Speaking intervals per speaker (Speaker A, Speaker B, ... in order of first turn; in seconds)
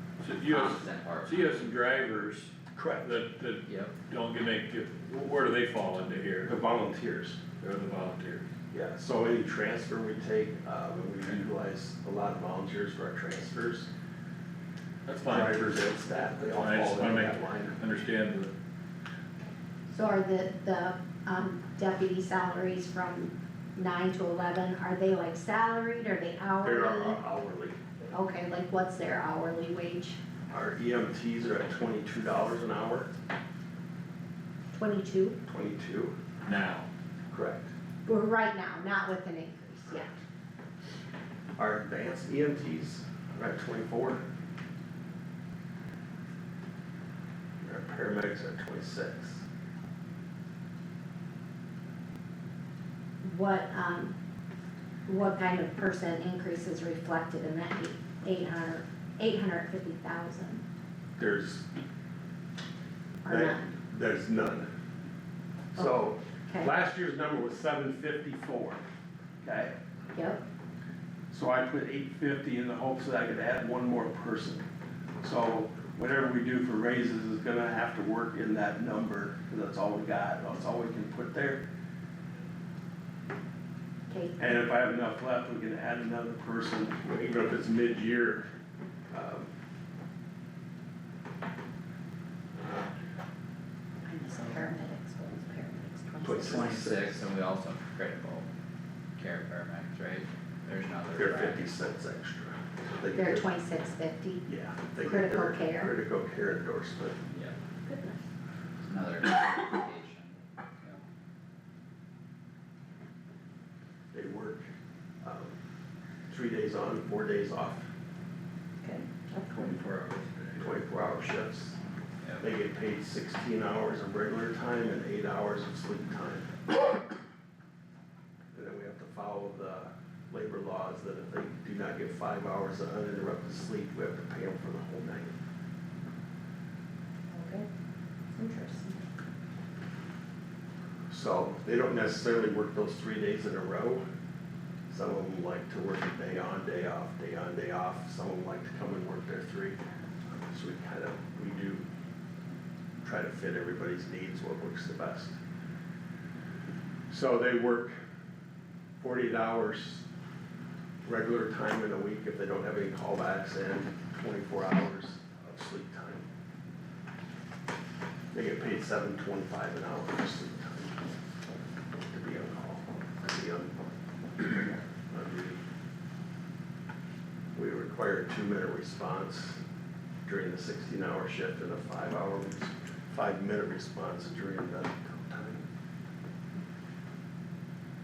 Speaker A: 0.2-6.5, 7.6-8.5, 15.1-15.6, 16.5-18.5, 36.4-36.9, 119.6-120.5
Speaker B: 0.5-1.4, 3.7-3.9, 96.4-98.5, 99.2-101.7, 108.8-111.0
Speaker C: 2.7-3.1, 6.5-7.4, 8.7-13.9, 15.3-17.8, 26.6-27.8, 30.5-33.1, 35.5-36.1, 37.3-37.7, 41.6-44.2, 47.6-49.5, 61.2-61.7, 63.3-64.7, 65.8-68.8, 69.4-69.7, 71.3-74.6, 75.2-81.6, 84.4-88.5, 89.1-89.5, 92.6-92.9, 96.2-97.2, 101.2-103.5, 104.5-107.2, 114.1-114.7, 115.2-115.5, 116.3-117.9, 120.6-121.8, 122.4-126.6, 128.5-135.3, 141.1-144.0, 144.9-151.8, 153.0-155.4, 157.1-158.0, 159.0-160.1, 161.1-166.3, 168.3-171.0, 172.1-173.7, 174.4-175.6, 177.6-179.6, 180.2-185.7
Speaker D: 19.9-27.2, 28.1-30.2, 34.7-35.4, 38.1-40.1, 53.2-54.2, 55.1-60.6, 63.2-63.6, 70.1-70.4, 84.1-84.4, 94.0-96.6, 103.1-104.5, 105.0-105.9, 107.9-108.2, 118.8-119.8, 137.3-137.7, 138.3-139.0